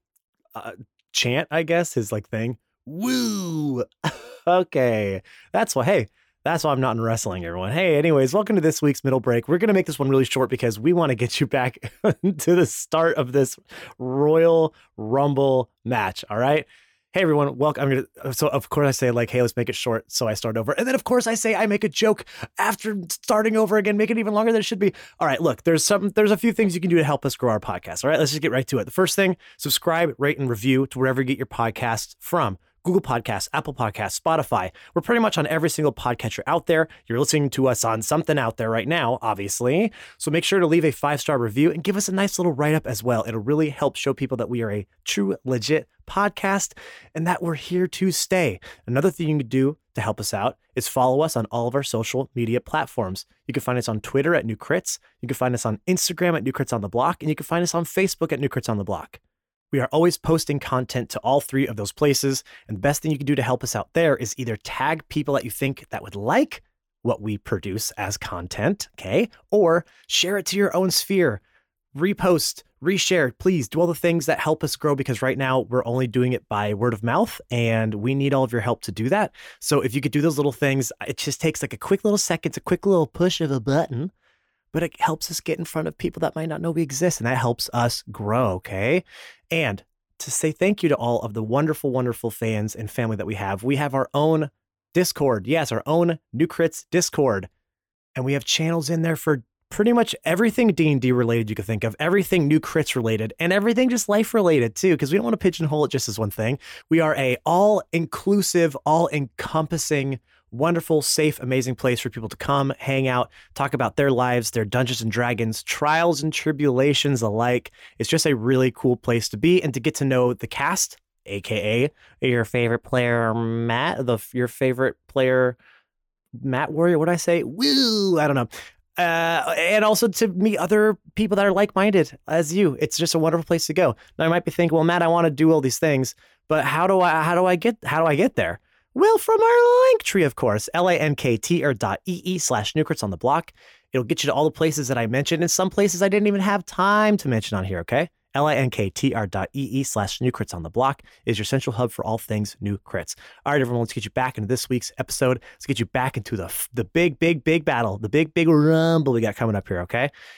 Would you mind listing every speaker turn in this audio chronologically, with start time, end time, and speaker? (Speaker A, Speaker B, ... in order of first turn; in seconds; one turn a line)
Speaker A: 0.5-59.2
Speaker A: 59.7-71.4
Speaker A: 72.0-84.1
Speaker A: 84.7-97.5
Speaker A: 98.2-125.6
Speaker A: 126.4-160.1